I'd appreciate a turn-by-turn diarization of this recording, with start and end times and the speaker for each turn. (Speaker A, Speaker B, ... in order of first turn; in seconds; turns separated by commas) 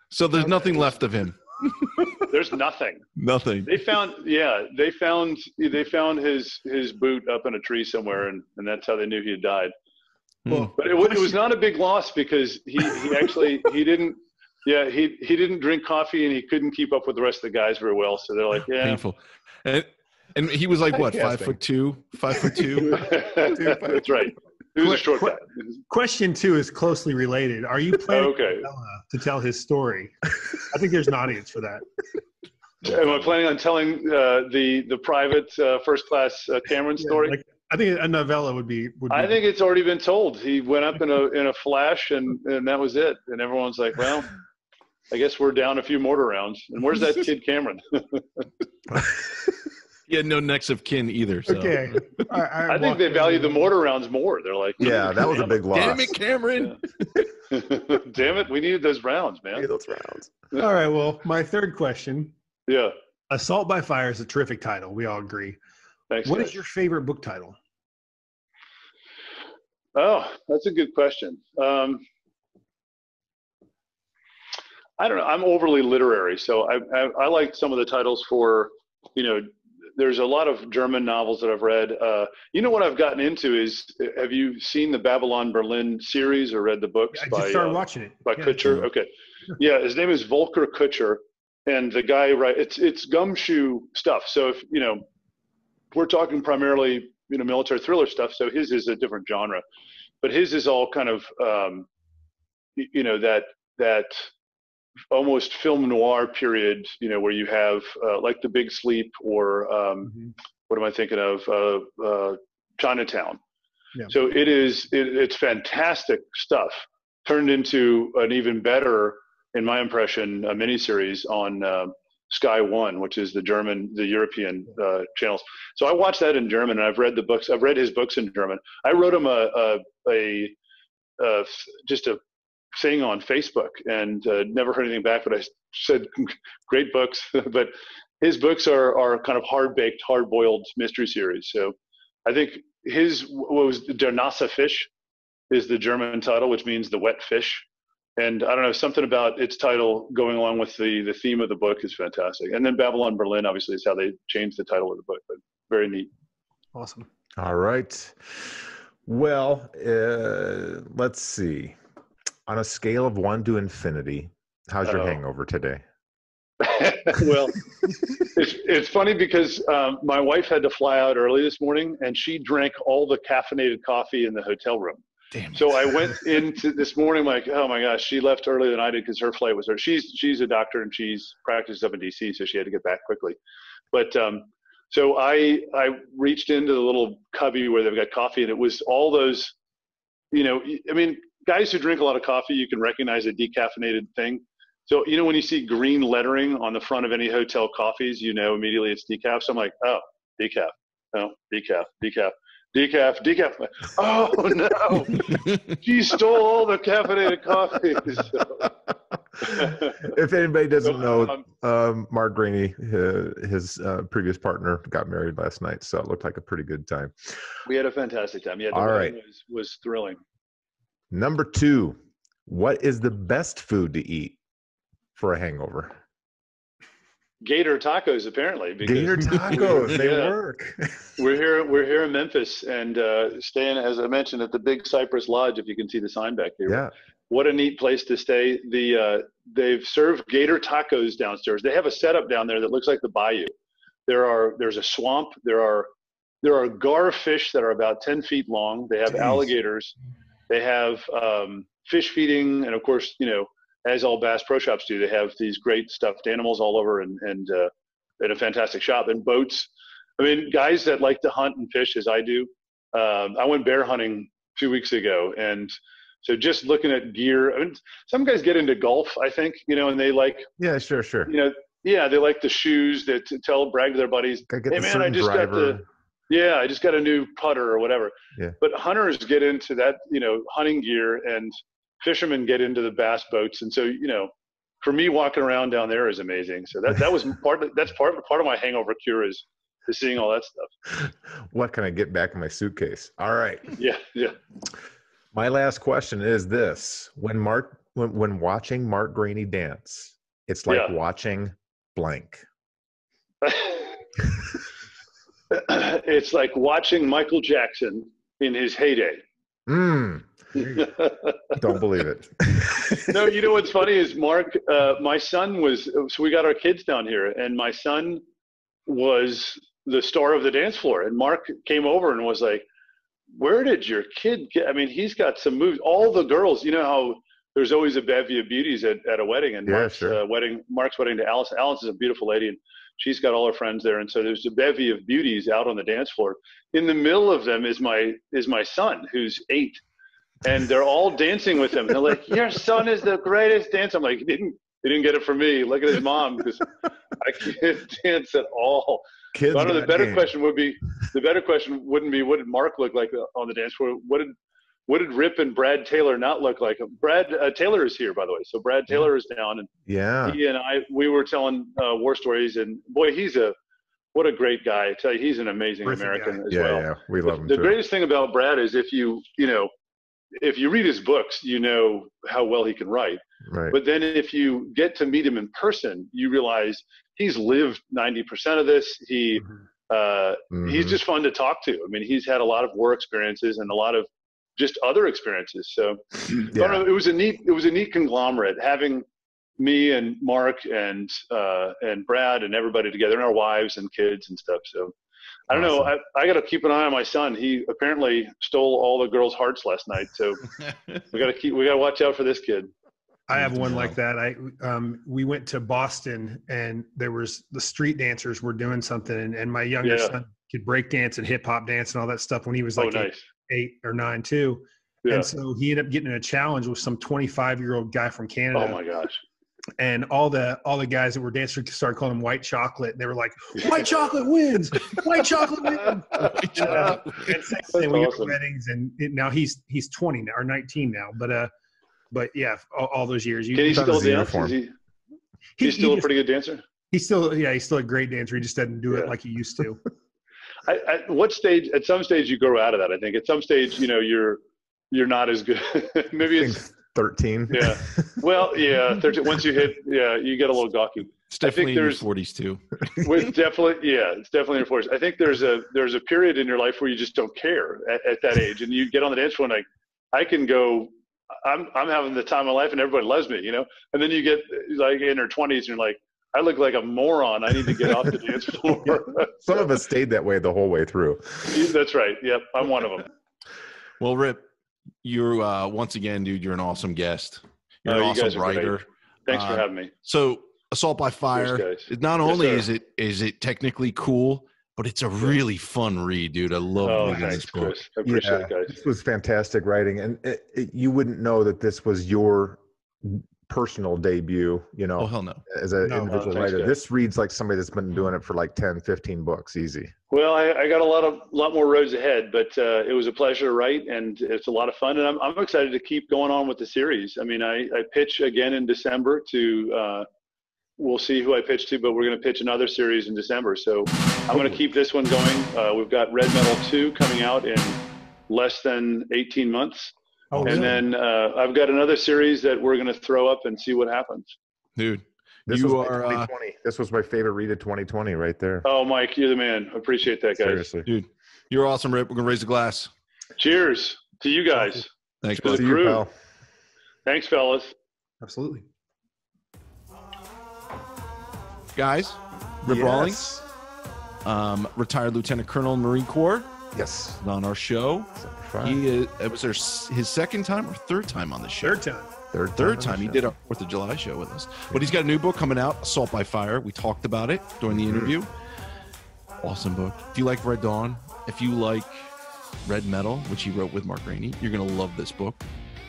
Speaker A: 0.1-2.2, Speaker B: 0.4-0.9, Speaker C: 2.3-3.0, Speaker A: 3.2-3.9, Speaker C: 3.6-9.7, Speaker A: 10.4-10.7, Speaker C: 10.7-19.0, Speaker A: 18.8-23.1, Speaker D: 21.0-21.6, Speaker C: 22.8-25.7, Speaker D: 23.4-24.3, Speaker B: 24.8-31.8, Speaker C: 28.1-28.7, Speaker C: 32.8-37.4, Speaker D: 32.9-33.2, Speaker B: 37.0-39.4, Speaker C: 39.1-44.3, Speaker C: 45.1-48.4, Speaker D: 48.9-49.2, Speaker A: 50.1-52.3, Speaker B: 51.5-53.7, Speaker C: 52.7-55.7, Speaker D: 54.8-56.2, Speaker A: 55.7-57.3, Speaker C: 57.5-59.7, Speaker D: 59.5-60.3, Speaker B: 60.5-62.3, Speaker C: 62.7-62.9, Speaker B: 63.3-65.6, Speaker C: 66.1-66.5, Speaker B: 66.2-67.6, Speaker C: 69.9-72.0, Speaker C: 75.0-95.0, Speaker B: 87.1-88.9, Speaker C: 95.9-99.6, Speaker C: 100.2-101.9, Speaker C: 102.8-104.3, Speaker C: 105.1-113.4, Speaker C: 114.1-130.6, Speaker C: 131.2-132.2, Speaker C: 132.7-144.9, Speaker C: 145.5-147.6, Speaker C: 148.2-156.1, Speaker B: 156.7-157.1, Speaker D: 157.4-161.8, Speaker D: 162.5-165.8, Speaker C: 164.8-165.2, Speaker C: 166.6-167.6, Speaker C: 168.2-175.0, Speaker A: 175.3-176.1, Speaker C: 175.5-183.4, Speaker C: 183.9-189.5, Speaker C: 190.3-208.7, Speaker D: 209.4-217.3, Speaker C: 209.4-210.1, Speaker C: 210.8-211.4, Speaker C: 217.7-220.2, Speaker D: 218.7-219.2, Speaker D: 221.1-221.9, Speaker D: 222.5-224.4, Speaker D: 225.2-225.9, Speaker C: 227.4-230.3, Speaker D: 228.8-231.1, Speaker C: 231.2-243.5, Speaker C: 244.1-245.9, Speaker C: 246.4-249.9, Speaker C: 250.5-270.5, Speaker D: 270.6-271.3, Speaker C: 271.2-284.3, Speaker D: 274.5-275.8, Speaker C: 284.8-290.7, Speaker D: 290.9-293.8, Speaker C: 293.8-294.4, Speaker D: 295.3-302.4, Speaker C: 300.7-300.9, Speaker C: 303.4-304.0, Speaker C: 305.5-309.2, Speaker D: 309.7-310.8, Speaker C: 310.5-311.6, Speaker D: 311.6-313.1, Speaker C: 313.0-318.2, Speaker C: 318.9-322.6, Speaker C: 323.3-339.8, Speaker D: 329.6-330.2, Speaker C: 340.4-354.3, Speaker D: 349.3-350.3, Speaker C: 354.9-359.7, Speaker D: 359.9-360.4, Speaker C: 360.2-363.6, Speaker C: 364.1-369.7, Speaker B: 365.8-366.4, Speaker D: 366.5-367.8, Speaker C: 370.4-389.1, Speaker D: 373.4-373.8, Speaker D: 380.5-381.0, Speaker D: 386.5-386.9, Speaker C: 389.6-394.9, Speaker C: 395.5-400.4, Speaker D: 395.5-395.9, Speaker C: 401.1-402.7, Speaker B: 403.3-418.8, Speaker D: 403.6-403.9, Speaker C: 409.8-410.1, Speaker C: 412.8-413.2, Speaker C: 415.0-415.3, Speaker C: 418.5-419.2, Speaker B: 419.8-431.5, Speaker A: 426.2-427.3, Speaker C: 426.6-427.0, Speaker C: 427.7-428.4, Speaker B: 432.1-434.0, Speaker C: 433.5-434.7, Speaker D: 433.7-434.6, Speaker B: 435.6-436.1, Speaker C: 435.6-436.6, Speaker B: 436.9-439.8, Speaker C: 440.6-444.4, Speaker C: 444.9-446.6, Speaker D: 446.3-448.2, Speaker C: 447.5-452.0, Speaker A: 451.3-452.8, Speaker C: 453.0-460.9, Speaker C: 461.4-469.6, Speaker D: 469.2-471.6, Speaker C: 471.5-473.1, Speaker A: 474.0-474.4, Speaker A: 475.0-487.8, Speaker C: 477.9-479.9, Speaker C: 481.3-482.6, Speaker C: 486.8-488.8, Speaker D: 488.0-499.9, Speaker A: 495.0-495.4, Speaker B: 495.8-496.2, Speaker C: 496.1-496.7, Speaker C: 500.1-510.1, Speaker C: 510.8-524.3, Speaker D: 514.3-514.6, Speaker B: 520.3-520.8, Speaker D: 520.3-520.8, Speaker A: 524.8-526.3, Speaker D: 525.5-528.6, Speaker C: 528.6-530.6, Speaker D: 530.4-530.9, Speaker A: 530.9-532.9, Speaker C: 533.4-536.0, Speaker A: 535.2-535.6, Speaker D: 535.4-536.1, Speaker C: 537.0-537.7, Speaker B: 538.2-538.6, Speaker A: 541.7-543.2, Speaker D: 542.7-543.4, Speaker A: 544.2-546.5, Speaker D: 546.7-547.2, Speaker A: 547.2-551.8, Speaker D: 548.1-548.8, Speaker B: 551.6-552.1, Speaker D: 552.3-553.2, Speaker A: 552.5-558.3, Speaker D: 557.7-558.1, Speaker A: 559.4-562.1, Speaker A: 562.6-565.4